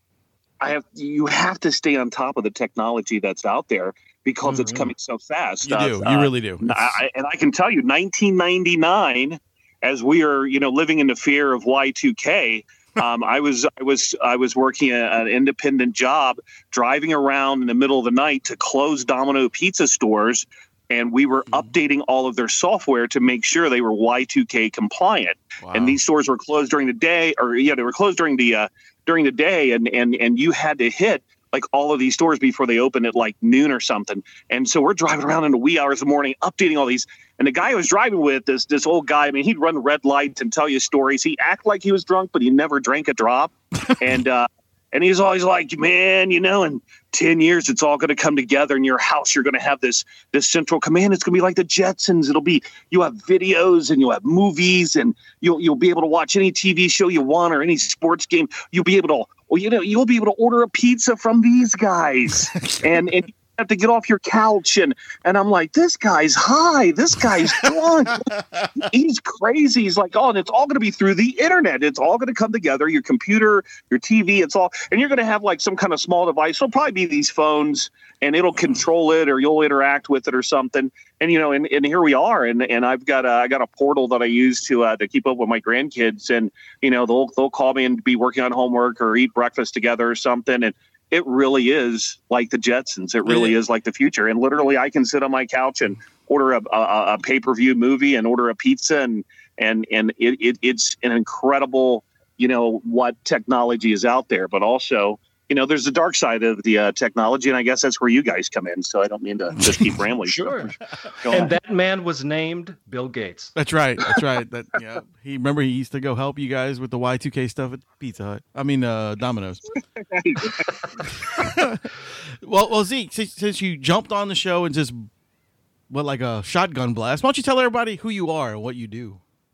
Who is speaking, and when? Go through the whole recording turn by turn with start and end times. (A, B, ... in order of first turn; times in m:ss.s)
0:00.6-1:51.5 A
0:04.4-0:04.9 B
0:05.6-0:07.0 C
0:25.6-0:26.0 C
1:02.4-1:03.0 C
1:07.4-1:08.9 C
1:33.2-1:33.6 C
1:49.6-1:50.0 C
1:50.3-1:50.7 B
1:51.3-1:53.5 B
1:53.6-1:59.6 C
2:00.0-2:01.0 A
2:01.3-2:01.9 C
2:02.4-2:05.1 C
2:05.9-2:09.2 C